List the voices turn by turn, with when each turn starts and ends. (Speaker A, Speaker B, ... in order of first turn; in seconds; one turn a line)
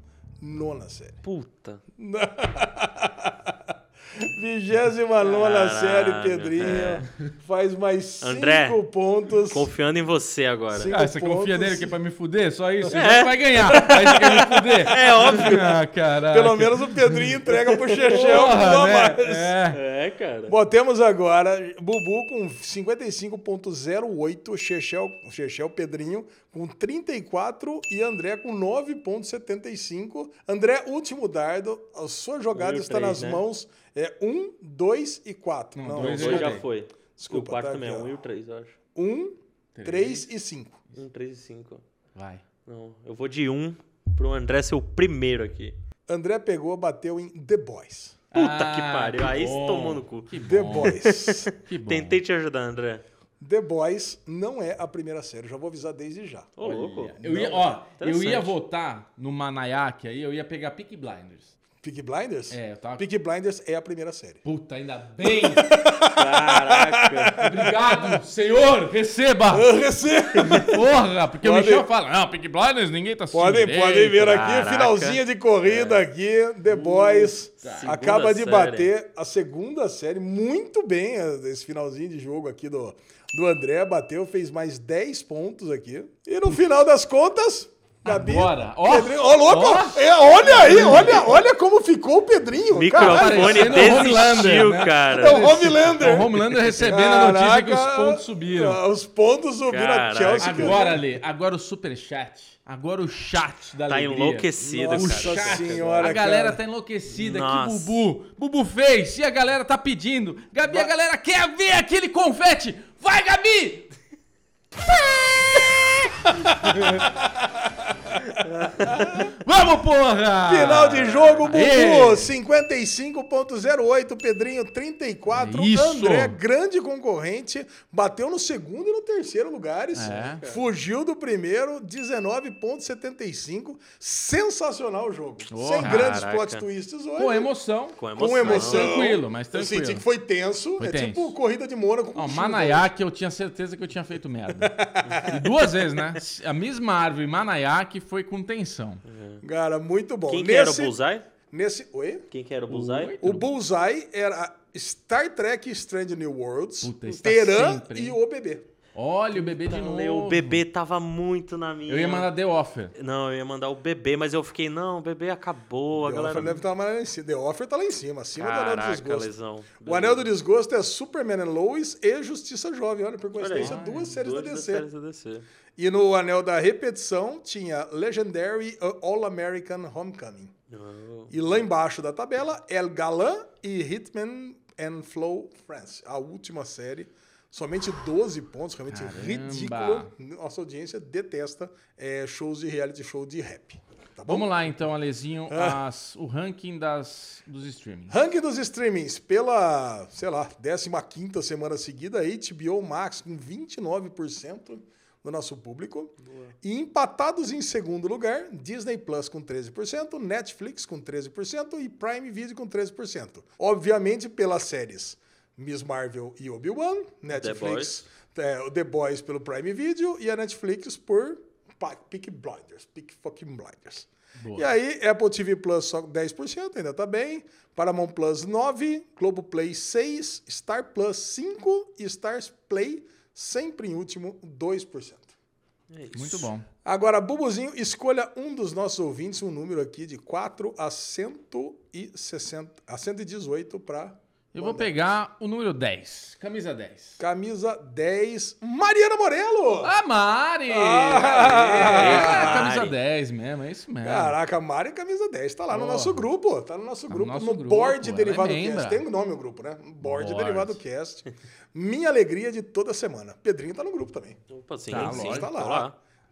Speaker A: 0.4-1.2
Speaker B: 1.2-1.8
Speaker A: 2.0-9.7
Speaker B: 5.2-7.1
Speaker B: 8.2-8.8
Speaker B: 9.5-10.9
Speaker A: 10.7-11.9
Speaker C: 10.9-17.4
Speaker B: 12.9-15.8
Speaker A: 14.9-15.7
Speaker A: 16.3-19.6
Speaker B: 17.5-18.4
Speaker C: 18.1-19.8
Speaker B: 19.7-20.5
Speaker A: 20.5-36.6
Speaker B: 32.5-33.5
Speaker C: 35.8-36.7
Speaker B: 36.0-38.8
Speaker A: 37.2-38.1
Speaker A: 39.0-40.8
Speaker C: 39.8-40.3
Speaker B: 40.9-41.8
Speaker C: 42.1-42.4
Speaker B: 42.7-45.8
Speaker A: 46.1-48.2
Speaker C: 48.3-52.2
Speaker B: 48.3-53.0
Speaker A: 50.4-51.5
Speaker A: 53.4-56.5
Speaker B: 56.6-58.5
Speaker C: 56.6-61.5
Speaker A: 57.2-57.7
Speaker A: 61.8-64.4
Speaker C: 62.5-63.1
Speaker C: 64.4-65.8
Speaker A: 65.2-68.0
Speaker B: 66.1-67.6
Speaker C: 67.4-69.7
Speaker A: 69.5-70.9
Speaker C: 70.4-74.5
Speaker A: 71.4-71.9
Speaker A: 73.3-94.1
Speaker B: 74.2-76.0
Speaker C: 76.7-78.0
Speaker B: 77.6-78.9
Speaker C: 88.0-91.4
Speaker B: 92.7-95.6
Speaker C: 93.0-98.8
Speaker A: 95.1-101.0
Speaker B: 99.7-100.8
Speaker C: 100.4-113.9
Speaker B: 103.9-106.1
Speaker A: 104.6-106.6
Speaker B: 107.1-108.0
Speaker C: 114.9-117.1
Speaker A: 116.5-117.9
Speaker B: 118.4-118.7
Speaker A: 118.8-119.3
Speaker C: 118.9-122.3
Speaker A: 120.5-137.5
Speaker B: 120.8-121.3
Speaker C: 125.3-126.4
Speaker C: 129.9-130.6
Speaker C: 135.5-136.2
Speaker B: 135.8-136.6
Speaker C: 137.2-140.1
Speaker B: 138.0-139.0
Speaker A: 138.2-142.9
Speaker C: 140.8-141.4
Speaker C: 142.2-149.0
Speaker A: 144.6-145.6
Speaker B: 149.1-149.4
Speaker A: 149.4-150.9
Speaker B: 150.3-151.3
Speaker A: 151.5-152.3
Speaker B: 152.3-153.2
Speaker C: 152.7-153.5
Speaker A: 153.2-158.7
Speaker C: 156.8-158.2
Speaker C: 158.9-160.6
Speaker B: 159.3-162.3
Speaker C: 161.9-162.9
Speaker B: 162.9-166.6
Speaker A: 165.9-169.3
Speaker B: 168.4-170.3
Speaker A: 169.8-174.9
Speaker B: 173.4-175.5
Speaker C: 173.5-174.2
Speaker A: 175.8-180.5
Speaker B: 180.7-181.3
Speaker A: 181.3-194.5
Speaker C: 188.9-190.1
Speaker C: 194.3-198.2
Speaker A: 195.5-195.8
Speaker A: 198.1-235.3
Speaker B: 206.3-206.5
Speaker B: 217.3-218.1
Speaker C: 224.4-224.7
Speaker B: 235.9-236.5
Speaker C: 236.1-236.7
Speaker A: 236.8-244.9
Speaker C: 244.5-247.2
Speaker A: 247.2-249.9
Speaker C: 249.8-254.3
Speaker A: 250.7-252.7
Speaker B: 251.8-252.9
Speaker A: 254.0-264.4
Speaker C: 255.7-256.3
Speaker C: 257.1-259.1
Speaker C: 260.0-260.8
Speaker B: 264.5-266.0
Speaker C: 264.9-265.5
Speaker A: 264.9-265.9